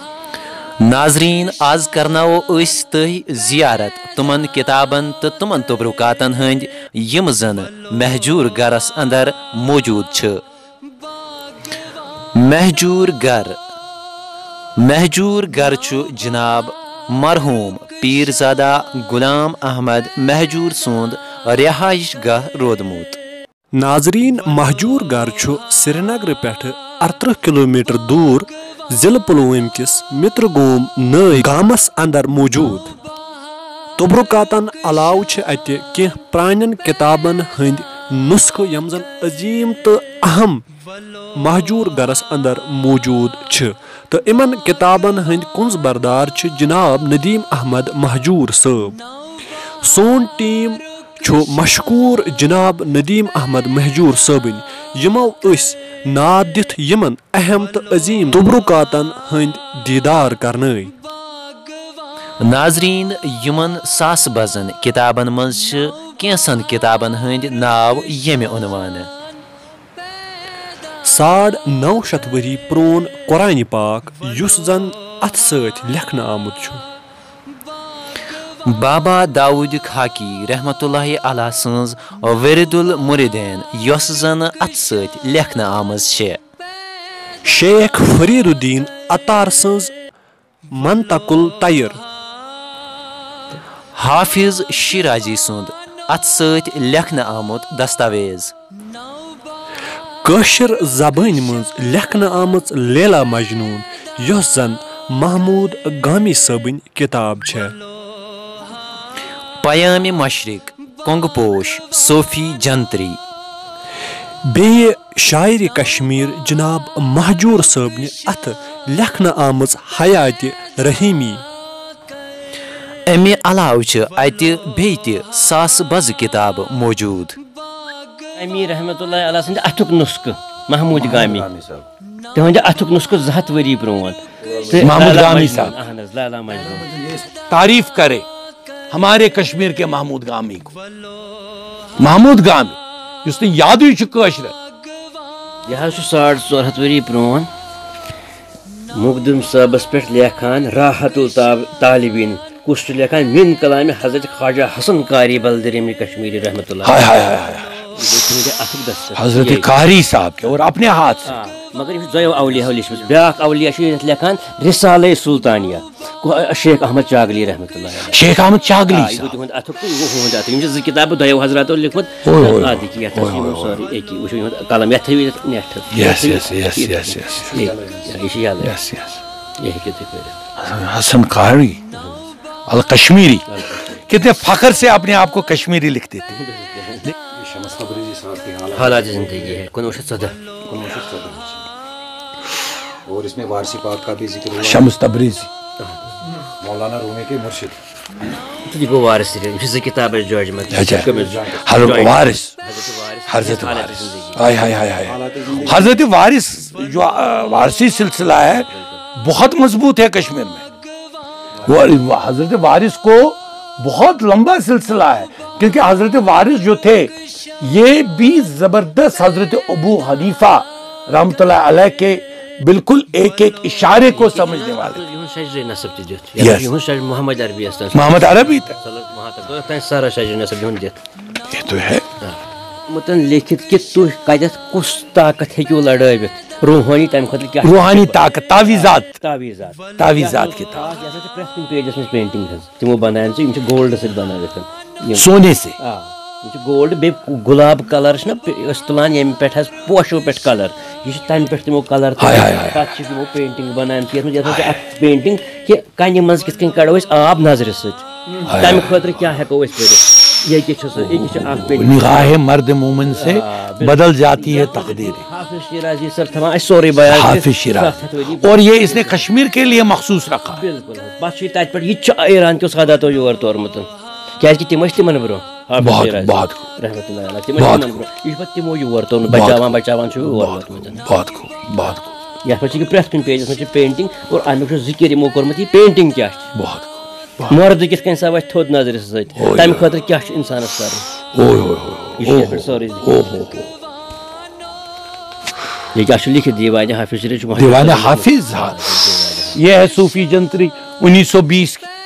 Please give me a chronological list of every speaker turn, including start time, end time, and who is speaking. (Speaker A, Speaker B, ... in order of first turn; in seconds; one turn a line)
Speaker A: 0.8-10.4
Speaker A: 12.3-13.6
Speaker A: 14.8-23.2
Speaker B: 23.7-32.9
Speaker B: 34.0-40.7
Speaker B: 41.4-49.0
Speaker B: 49.8-60.9
Speaker A: 62.4-69.1
Speaker B: 71.0-76.8
Speaker A: 78.7-86.4
Speaker B: 87.5-89.9
Speaker B: 90.7-92.0
Speaker A: 94.0-98.5
Speaker B: 100.2-107.8
Speaker A: 109.6-113.2
Speaker B: 114.5-121.5
Speaker A: 123.1-127.4
Speaker C: 128.4-131.5
Speaker D: 131.0-131.9
Speaker C: 132.3-136.9
Speaker E: 134.8-135.7
Speaker D: 136.7-137.3
Speaker E: 137.5-138.3
Speaker E: 138.9-140.8
Speaker E: 142.0-144.5
Speaker C: 145.7-147.5
Speaker C: 148.9-157.1
Speaker E: 156.8-157.8
Speaker C: 158.0-159.7
Speaker E: 159.2-161.3
Speaker C: 161.2-168.3
Speaker E: 168.1-169.3
Speaker C: 168.9-178.7
Speaker E: 172.2-173.8
Speaker E: 175.9-177.5
Speaker D: 177.4-178.2
Speaker E: 178.6-179.2
Speaker C: 179.6-180.4
Speaker E: 180.6-181.8
Speaker C: 181.9-182.2
Speaker E: 182.7-186.3
Speaker C: 183.5-183.9
Speaker C: 186.3-187.1
Speaker D: 187.3-189.6
Speaker C: 188.7-190.4
Speaker D: 190.7-191.7
Speaker D: 193.1-194.9
Speaker E: 194.6-195.5
Speaker D: 196.6-197.8
Speaker C: 198.6-204.4
Speaker E: 200.7-202.6
Speaker D: 201.0-201.7
Speaker E: 203.3-210.7
Speaker D: 205.0-206.0
Speaker C: 208.4-209.0
Speaker E: 211.7-225.0
Speaker C: 223.9-231.0
Speaker E: 226.4-226.7
Speaker E: 227.9-228.7
Speaker E: 231.5-232.1
Speaker C: 232.2-245.3
Speaker E: 237.6-239.1
Speaker E: 240.0-240.9
Speaker E: 245.2-245.8
Speaker C: 245.8-262.3
Speaker E: 252.2-252.8
Speaker E: 258.4-258.9
Speaker E: 260.9-265.2
Speaker C: 263.1-269.3
Speaker E: 267.0-270.6
Speaker C: 270.5-273.9
Speaker C: 274.4-281.0
Speaker E: 275.8-276.6
Speaker E: 277.6-277.9
Speaker E: 279.3-279.6
Speaker E: 280.2-282.1
Speaker C: 282.4-286.5
Speaker E: 286.6-287.5
Speaker C: 287.5-291.1
Speaker E: 289.4-289.9
Speaker E: 291.3-293.7
Speaker C: 292.2-293.6
Speaker C: 295.9-299.6
Speaker E: 297.6-298.8
Speaker E: 299.5-301.9